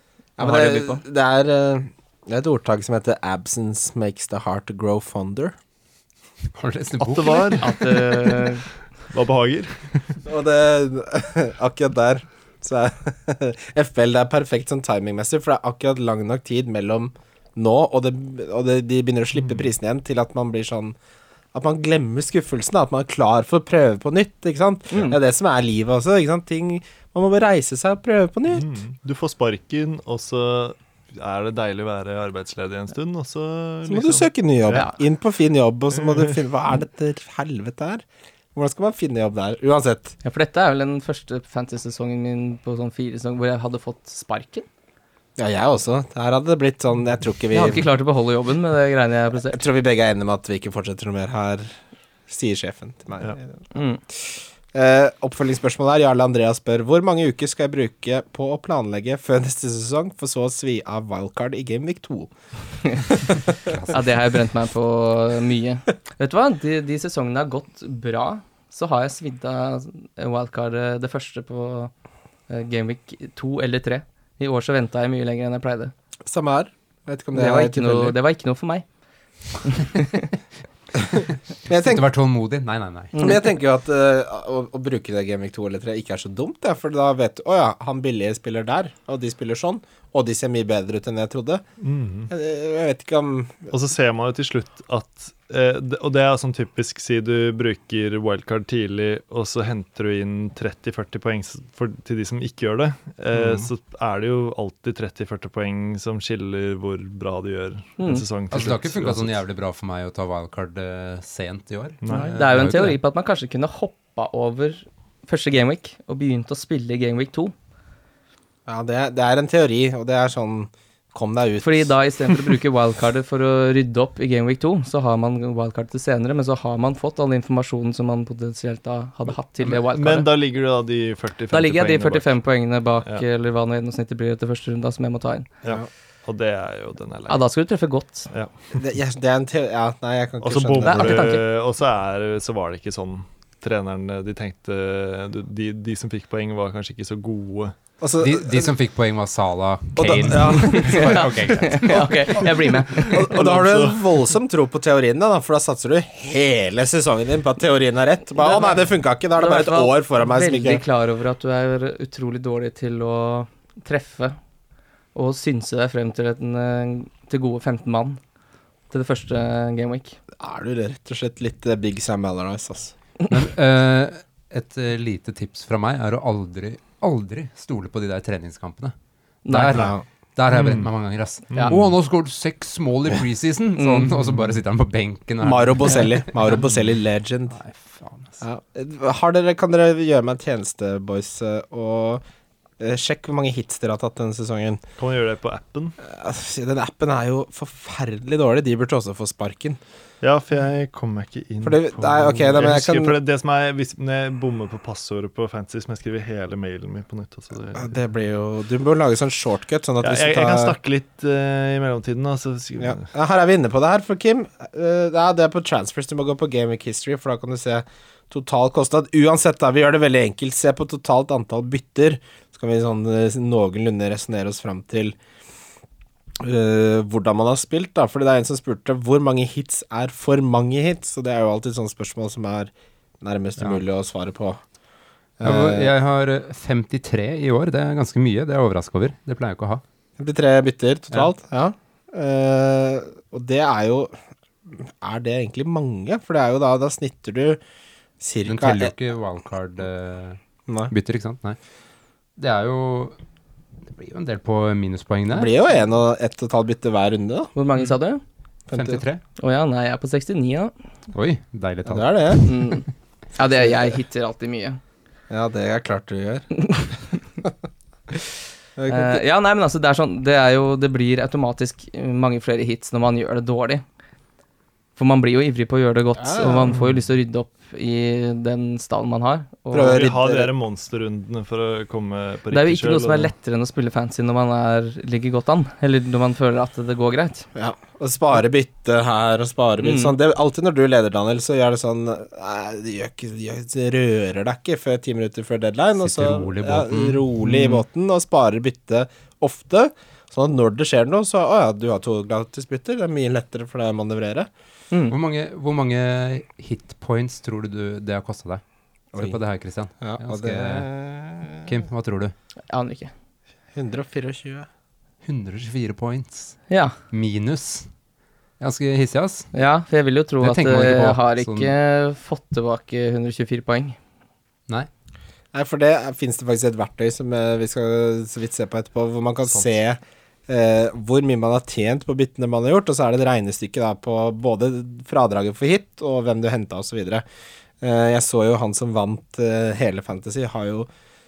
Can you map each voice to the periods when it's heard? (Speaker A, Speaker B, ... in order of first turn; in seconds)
Speaker A: 0.4-5.5, 10.2-20.9, 21.5-28.6, 33.9-40.1, 45.4-47.8, 49.4-62.3, 62.9-63.6, 76.2-78.2, 81.7-82.0, 83.2-91.6, 92.3-93.7, 103.3-103.7, 118.7-122.0, 138.8-141.3, 148.0-148.7, 149.9-151.5, 153.0-160.8, 170.4-172.9, 179.8-180.0, 185.4-187.6, 188.4-192.2, 192.8-194.8, 196.0-199.8, 201.6-203.1, 207.7-210.8, 212.8-225.2, 226.4-234.6, 235.4-235.9, 240.2-244.2, 244.7-247.6, 248.2-248.9, 250.7-250.9, 255.3-257.5, 258.7-259.0, 261.9-262.4, 265.3-266.5, 268.8-269.2, 276.2-276.7, 279.7-280.5, 287.6-304.5, 309.1-309.4, 310.0-311.7, 313.7-314.7, 325.5-337.2, 337.8-340.9
Speaker B: 0.4-1.0, 7.6-8.6, 24.9-25.2, 34.7-35.0, 40.2-44.6, 47.5-49.6, 53.7-54.0, 63.9-71.9, 72.5-75.9, 77.3-78.9, 79.6-80.2, 108.0-108.2, 112.1-117.5, 121.6-130.3, 131.5-135.5, 137.3-138.3, 140.8-141.4, 150.6-153.4, 158.4-164.4, 165.1-168.2, 168.9-170.2, 179.4-179.9, 183.8-184.1, 257.5-258.2, 259.4-260.7, 262.4-264.8, 268.9-273.8, 274.9-280.0, 282.5-287.5, 289.8-290.1, 312.7-313.1, 316.7-316.9, 319.5-324.0
Speaker C: 6.5-7.7, 63.6-64.0, 81.7-83.3, 108.5-113.0, 148.2-153.0, 173.3-178.9, 179.5-186.5, 187.5-188.4, 235.4-239.8, 248.4-251.6, 252.4-253.2, 253.8-255.5, 258.7-259.2, 261.1-262.8, 296.0-297.5, 305.1-310.9, 311.6-312.3, 315.2-317.9, 318.6-319.5, 320.4-321.7
Speaker D: 7.0-10.2, 28.5-34.9, 35.9-36.3, 91.8-92.3, 93.7-109.4, 112.0-112.3, 129.6-132.4, 135.6-137.4, 138.3-138.8, 140.4-147.8, 153.3-154.2, 180.5-180.9, 181.5-181.9, 195.0-195.9, 200.2-208.0, 210.0-213.1, 279.9-283.3, 329.5-329.8